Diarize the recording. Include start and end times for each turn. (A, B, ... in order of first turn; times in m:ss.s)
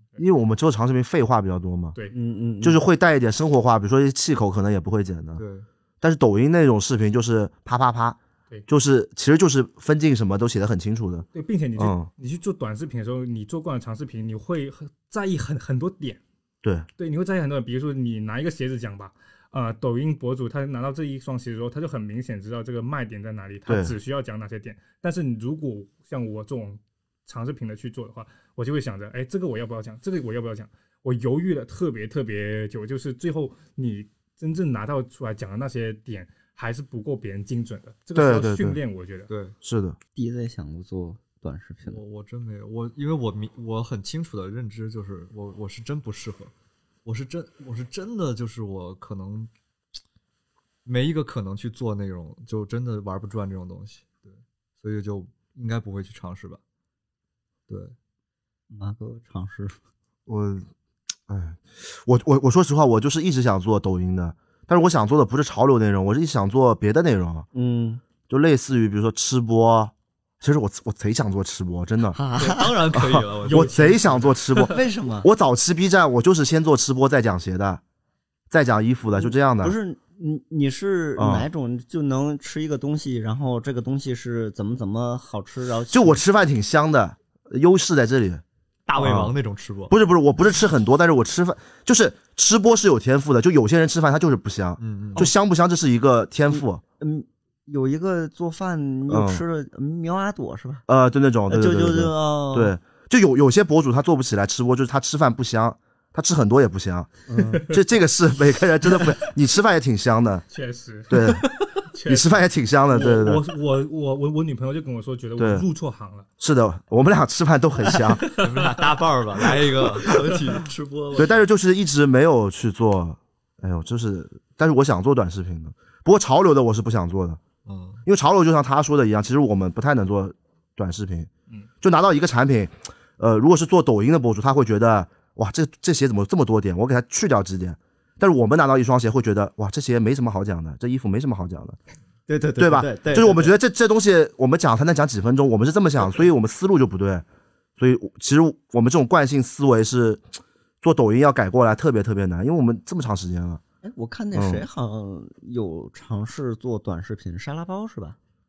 0:00.2-0:02.0 A
0:02.1-0:02.8 B
0:02.6-0:05.4 A
0:05.4-0:05.7 C
0:06.0-0:12.1 A
0:11.3-0:16.2 D
0:17.0-0:39.3 D
0:23.7-0:24.0 A
0:38.2-0:38.8 A
0:39.3-0:39.6 C
0:39.6-0:40.0 A
0:40.2-0:42.0 B
0:41.8-0:46.5 C
0:47.0-0:49.5 C
0:50.8-0:56.6 C
0:57.7-0:57.9 C
0:58.7-0:59.8 B
1:00.3-1:00.7 A
1:01.3-1:07.5 A
1:07.5-1:08.0 B
1:08.3-1:12.2 A
1:12.1-1:12.8 B
1:12.4-1:14.4 C
1:13.0-1:17.8 A
1:13.5-1:13.9 D
1:14.6-1:15.3 B
1:18.5-1:19.8 A
1:19.2-1:26.2 B
1:21.2-1:21.5 A
1:25.9-1:28.4 A
1:28.9-1:30.0 C
1:29.0-1:29.4 A
1:29.9-1:36.8 A
1:34.8-1:35.3 C
1:36.5-1:40.8 B
1:39.1-1:39.4 A
1:40.9-1:50.4 A
1:41.5-1:42.8 B
1:47.3-1:47.6 B
1:47.4-1:47.8 D
1:50.5-1:56.3 D
1:51.1-1:51.5 A
1:52.0-1:53.4 A
1:55.4-1:55.6 A
1:56.4-1:58.2 A
1:58.2-1:59.0 D
1:58.3-2:01.4 C
2:00.0-2:00.6 D
2:01.2-2:07.4 A
2:07.7-2:08.0 C
2:08.0-2:11.3 A
2:11.8-2:21.8 A
2:22.3-2:23.5 B
2:22.6-2:27.2 A
2:27.8-2:30.2 A
2:30.8-2:33.6 A
2:33.8-2:38.2 B
2:34.3-2:34.6 A